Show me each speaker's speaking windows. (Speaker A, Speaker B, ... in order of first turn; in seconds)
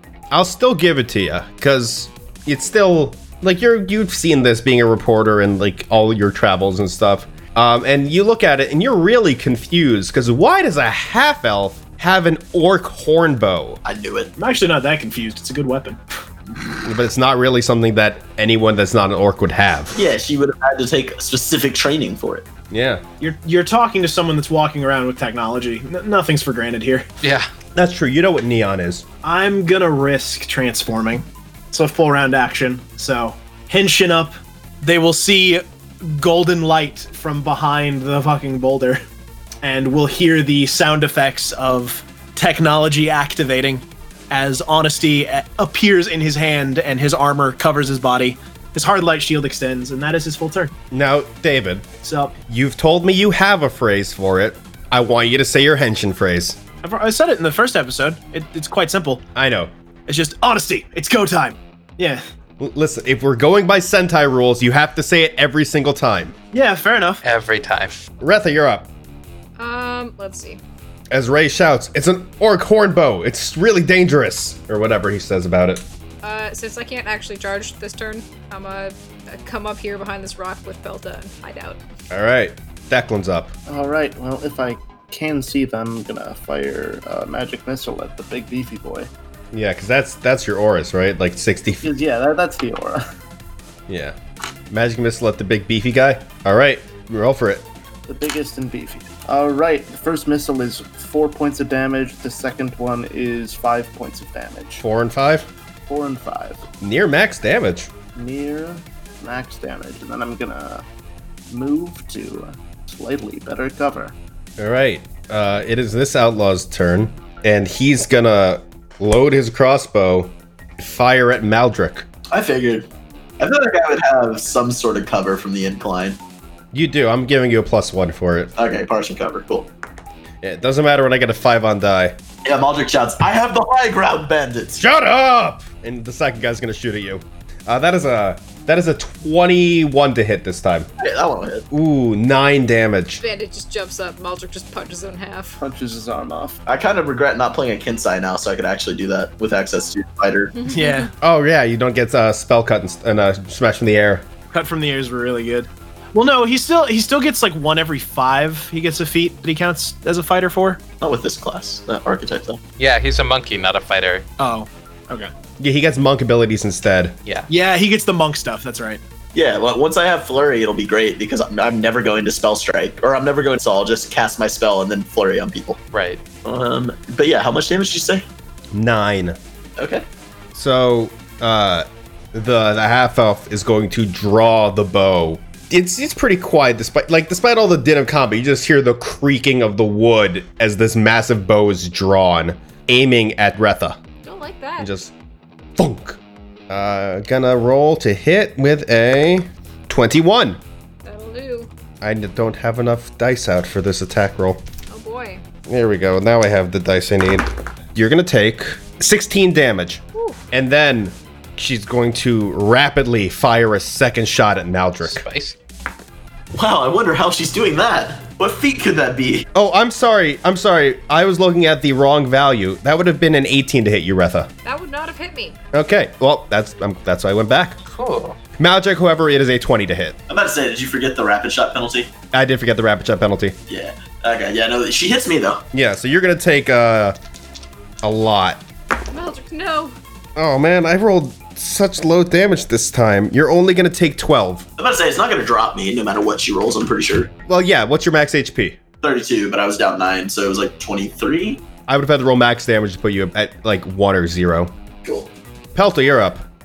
Speaker A: 0.3-13.8, 16.8-20.0, 22.7-23.0, 27.7-29.0, 50.9-51.9, 52.5-56.6, 59.3-59.7, 62.6-66.3, 68.2-68.9, 71.1-75.8, 82.1-83.5, 89.5-91.9, 93.9-94.2, 94.7-97.7, 104.8-105.5, 106.8-107.9, 114.6-122.0, 126.7-128.5, 130.4-132.2, 134.8-140.9, 141.7-143.2, 151.2-154.3, 165.6-167.2, 178.7-179.4, 180.5-194.0, 194.8-195.1, 195.8-200.6, 202.0-204.6, 205.7-215.2, 219.5-224.5, 225.7-227.8, 228.6-230.2, 232.3-233.6, 235.7-237.2, 238.0-238.6, 240.3-244.7, 247.5-248.8, 251.9-254.7, 255.7-256.4
Speaker B: 13.8-14.3, 19.9-22.4, 122.3-122.9, 123.4-126.2, 128.6-129.7, 132.4-134.8, 141.0-141.7, 146.7-150.6, 161.0-162.6, 169.3-175.8, 176.4-178.3, 179.8-180.1, 216.5-219.4, 230.3-232.1, 233.7-235.6, 244.8-247.3, 249.0-251.6, 255.0-255.3
Speaker C: 14.4-16.0, 23.2-27.1, 29.2-39.0, 39.6-50.7, 52.0-52.3, 56.8-59.2, 60.1-62.2, 66.5-67.2, 150.7-151.1, 154.5-160.8, 164.4-165.3, 167.5-169.0
Speaker D: 27.2-27.5, 67.2-68.0, 162.8-164.2, 175.9-176.2, 215.0-215.6, 227.9-228.4
Speaker E: 69.6-70.6, 76.2-81.8, 143.2-145.6, 150.6-151.1, 194.2-194.9, 201.0-201.7, 204.9-205.4, 210.1-210.4, 224.6-225.6, 239.1-239.9
Speaker F: 83.7-89.1, 91.8-93.0, 98.1-104.8, 105.9-106.6, 108.1-110.8, 111.5-114.1, 145.6-146.6